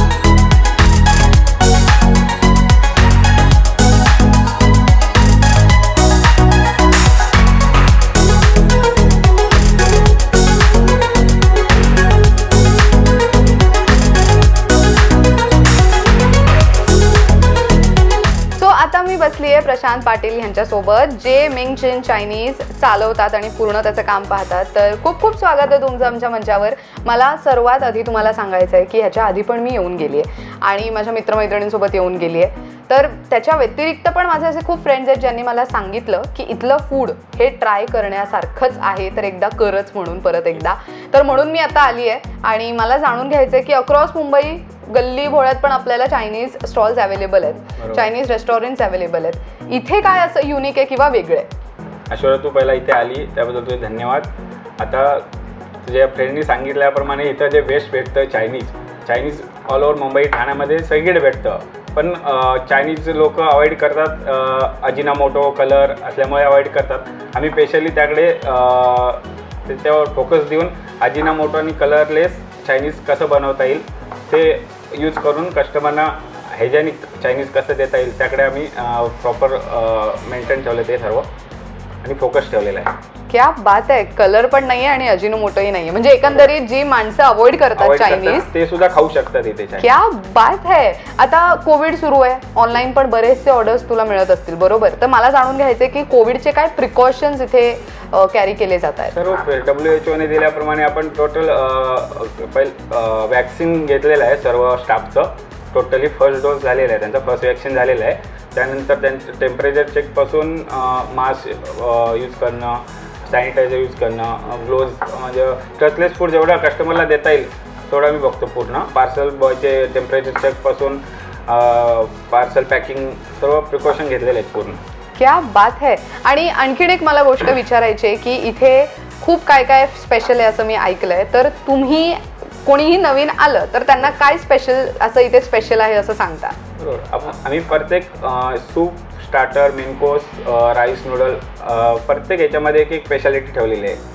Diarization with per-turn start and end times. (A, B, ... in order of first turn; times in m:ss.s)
0:18.6-0:51.5 A
0:47.8-0:48.1 B
0:52.1-0:55.3 B
0:55.8-1:21.3 B
1:22.0-1:22.9 B
1:23.3-1:28.5 A
1:27.8-1:29.9 B
1:29.8-1:39.3 A
1:39.1-2:04.8 B
2:05.2-2:16.6 A
2:16.8-2:24.0 B